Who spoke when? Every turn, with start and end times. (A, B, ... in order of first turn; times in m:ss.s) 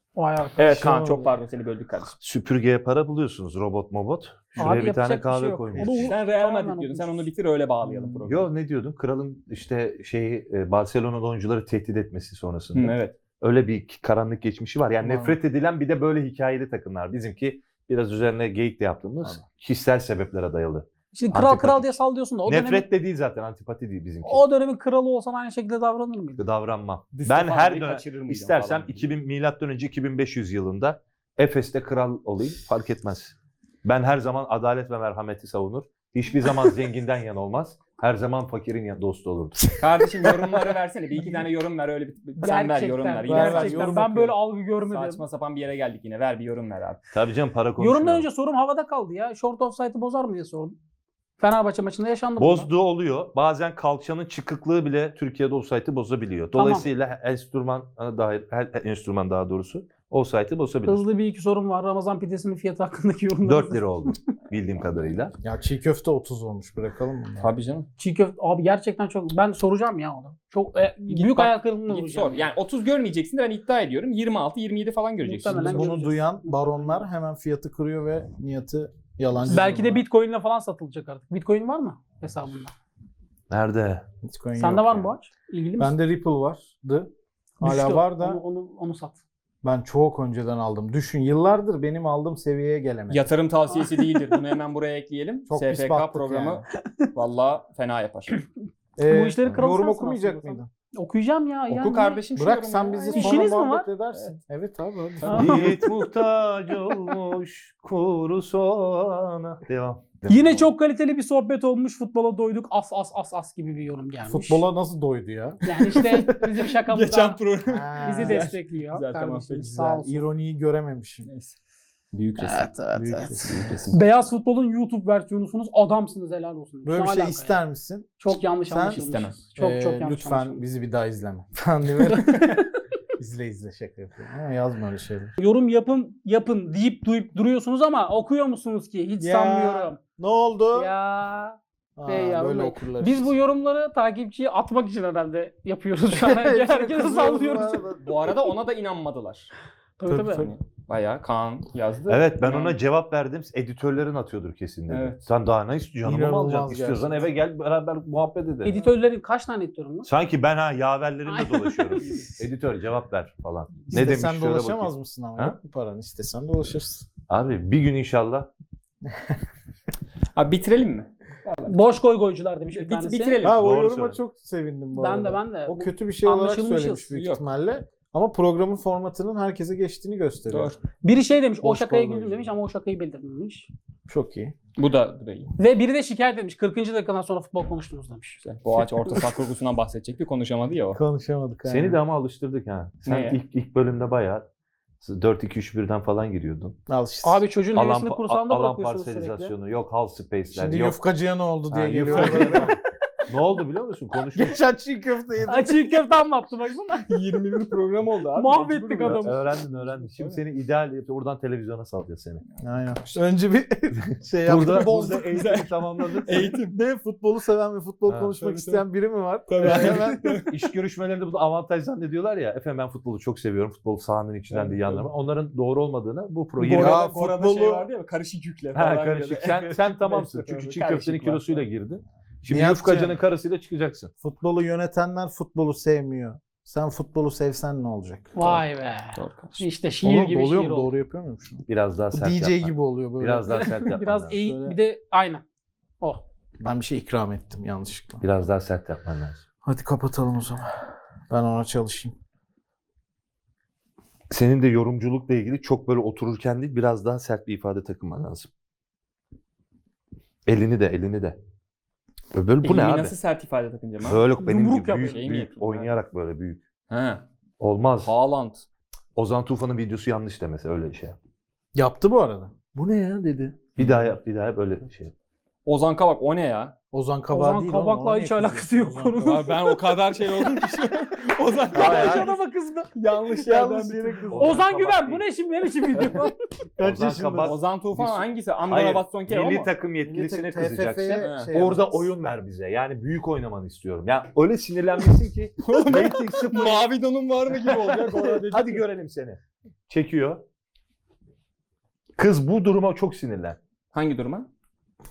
0:00.2-0:00.7 A
0:00.6-0:02.2 B
0:00.7-0:01.2 C
0:02.2-0:06.1 D
0:04.6-0:07.3 A
0:05.7-0:06.0 C
0:05.9-0:08.5 B
0:07.8-0:08.2 C
0:08.3-0:24.4 D
0:12.7-0:13.2 B
0:15.0-0:15.4 C
0:21.1-0:22.8 A
0:24.2-0:26.4 A
0:26.4-0:39.8 D
0:27.1-0:29.1 B
0:39.8-0:44.1 B
0:42.4-0:45.2 A
0:43.2-0:44.4 C
0:44.9-0:47.0 B
0:47.1-0:48.3 D
0:47.8-0:50.8 A
0:51.4-0:52.7 A
0:52.4-1:01.0 D
0:56.5-0:56.8 A
1:00.8-1:04.1 A
1:03.4-1:05.3 D
1:05.4-1:07.5 C
1:07.4-1:07.9 B
1:08.0-1:12.4 A
1:11.1-1:15.9 B
1:15.2-1:17.0 A
1:15.6-1:20.0 C
1:19.5-1:22.7 A
1:23.5-1:24.0 D
1:24.2-1:25.1 C
1:24.6-1:25.9 A
1:25.8-1:27.1 C
1:27.6-1:29.2 A
1:27.6-1:28.4 C
1:29.6-1:33.3 C
1:33.1-1:38.4 B
1:33.7-1:34.3 A
1:35.5-1:36.6 C
1:39.0-1:40.7 C
1:39.0-1:42.2 A
1:41.7-1:43.6 B
1:42.4-1:45.7 C
1:43.0-1:43.9 A
1:45.2-1:45.8 B
1:45.2-1:45.9 A
1:45.3-1:50.6 D
1:50.3-1:54.6 A
1:54.2-1:56.2 C
1:55.6-1:57.4 A
1:55.7-1:59.7 B
1:57.7-1:58.5 C
1:58.0-2:00.2 A
1:59.6-2:01.3 C
2:01.2-2:01.6 B
2:02.1-2:04.0 B
2:02.4-2:03.4 A
2:02.9-2:03.8 C
2:03.9-2:07.6 A
2:06.8-2:09.0 C
2:08.2-2:10.6 A
2:08.9-2:09.4 B
2:09.6-2:12.6 C
2:12.3-2:12.6 A
2:13.2-2:15.3 C
2:15.4-2:20.0 A
2:19.2-2:20.9 C
2:20.7-2:27.9 A
2:22.0-2:23.3 C
2:26.1-2:28.1 C
2:28.0-2:29.5 B
2:30.0-2:30.5 A
2:30.1-2:30.5 C
2:30.2-2:32.8 B
2:32.1-2:38.8 D
2:34.9-2:35.2 B
2:36.0-2:37.4 C
2:38.6-2:40.1 A
2:40.0-2:45.6 D
2:41.3-2:42.3 A
2:42.0-2:42.3 B
2:43.9-2:47.1 C
2:47.3-2:48.5 D
2:50.3-2:51.8 B
2:51.6-2:53.4 A
2:52.7-2:53.6 B
2:53.4-3:00.8 C
2:53.5-2:54.2 D
2:55.0-2:57.1 A
2:57.1-2:57.4 B
3:00.5-3:00.8 B
3:01.0-3:03.7 A
3:01.6-3:02.5 C
3:04.1-3:04.5 C
3:04.8-3:05.5 B
3:05.6-3:09.3 A
3:08.4-3:11.0 B
3:10.9-3:12.0 C
3:11.7-3:14.5 D
3:13.0-3:13.4 B
3:15.0-3:16.8 D
3:16.9-3:17.4 C
3:17.2-3:19.5 A
3:17.7-3:21.0 D
3:20.5-3:22.8 C
3:21.7-3:22.7 D
3:22.1-3:22.7 B
3:22.3-3:22.5 A
3:23.3-3:24.6 D
3:24.3-3:26.0 C
3:25.4-3:27.1 A
3:27.1-3:29.3 B
3:28.4-3:29.5 A
3:29.0-3:32.4 D
3:32.6-3:35.4 C
3:34.4-3:36.5 D
3:35.1-3:36.7 B
3:36.3-3:40.4 C
3:38.1-3:38.3 D
3:38.4-3:38.8 B
3:39.5-3:40.6 B
3:39.6-3:47.0 D
3:44.5-3:45.0 B
3:46.6-3:47.9 C
3:46.6-3:51.6 B
3:48.7-3:54.1 D
3:52.5-3:53.2 C
3:54.2-3:58.6 C
3:58.4-4:00.9 A
3:59.1-3:59.6 B
4:00.0-4:04.8 C
4:01.7-4:04.4 D
4:03.5-4:05.4 A
4:06.6-4:08.2 C
4:08.2-4:09.4 D
4:09.6-4:10.7 C
4:11.3-4:12.1 C
4:14.3-4:18.5 D
4:20.4-4:21.4 D
4:22.3-4:23.1 D
4:22.6-4:24.3 B
4:24.0-4:26.6 D
4:24.4-4:25.2 A
4:24.9-4:26.0 B
4:26.9-4:27.2 B
4:27.6-4:28.1 D
4:28.0-4:28.6 B
4:29.2-4:31.2 D
4:31.7-4:33.6 C
4:33.7-4:35.1 D
4:35.6-4:36.7 B
4:36.9-4:39.4 C
4:37.3-4:39.8 A
4:39.2-4:42.4 B
4:40.5-4:40.8 A
4:41.7-4:42.9 A
4:41.7-4:42.2 D
4:41.7-4:42.3 C
4:42.9-4:44.3 B
4:43.4-4:44.6 C
4:44.3-4:45.2 D
4:44.4-4:46.3 A
4:46.8-4:47.5 C
4:46.8-4:56.9 D
4:47.4-4:49.7 B
4:50.0-4:52.1 C
4:51.2-4:51.5 B
4:55.6-4:58.8 B
4:57.8-5:00.4 D
5:02.2-5:03.6 D
5:03.9-5:04.5 B